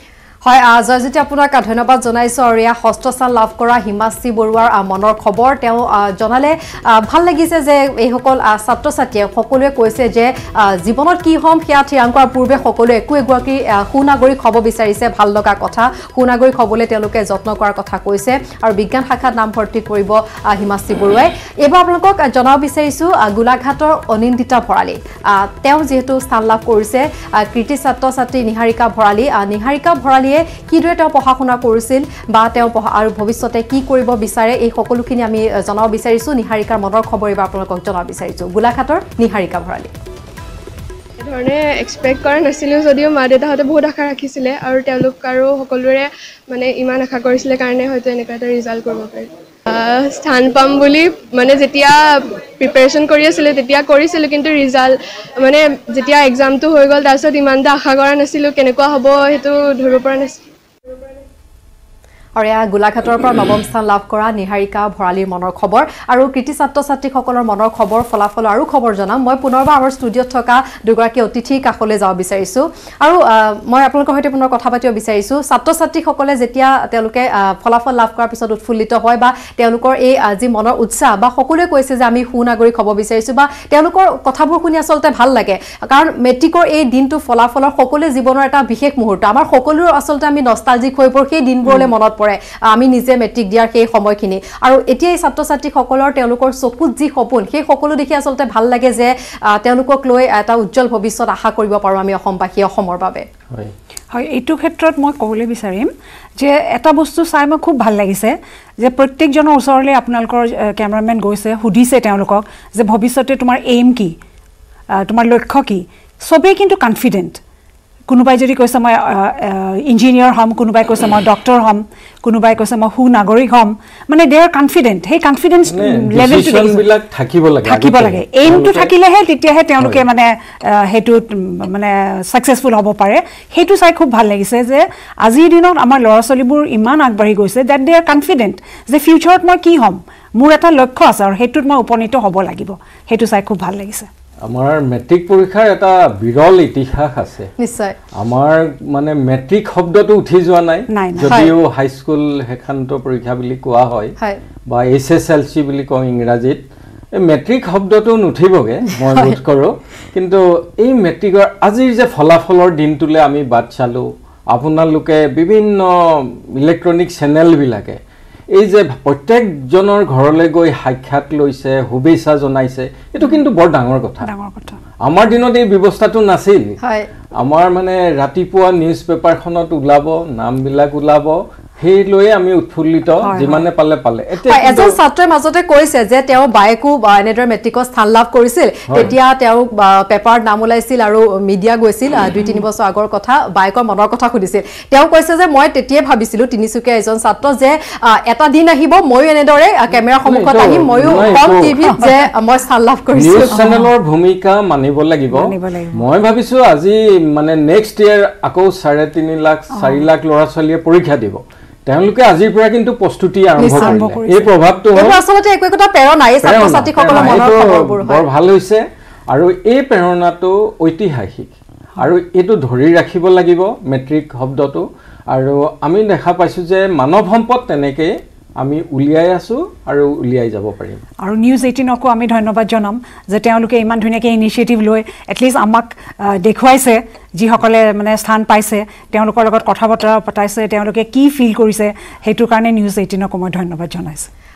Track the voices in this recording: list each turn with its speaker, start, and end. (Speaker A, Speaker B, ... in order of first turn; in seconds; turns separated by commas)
Speaker A: 0.5-39.9, Speaker B: 41.2-60.4, Speaker A: 62.4-103.2, Speaker C: 91.7-91.9, Speaker C: 104.1-114.2, Speaker C: 114.9-117.4, Speaker C: 118.1-126.8, Speaker D: 125.7-128.9, Speaker C: 127.6-144.1, Speaker D: 144.5-147.5, Speaker A: 147.6-148.0, Speaker D: 148.2-154.1, Speaker C: 150.9-151.5, Speaker A: 151.2-151.5, Speaker D: 154.7-156.6, Speaker D: 157.2-168.0, Speaker A: 159.1-159.3, Speaker D: 168.6-174.3, Speaker C: 174.2-174.8, Speaker D: 175.1-176.8, Speaker A: 176.8-177.1, Speaker D: 177.4-185.0, Speaker C: 183.2-183.7, Speaker A: 184.5-203.7, Speaker D: 200.2-201.8, Speaker C: 201.1-202.0, Speaker D: 203.2-215.2, Speaker C: 203.5-203.9, Speaker C: 205.3-206.1, Speaker C: 209.7-210.1, Speaker A: 213.6-214.0, Speaker C: 213.7-214.5, Speaker A: 214.9-218.2, Speaker D: 216.4-231.0, Speaker C: 231.2-244.3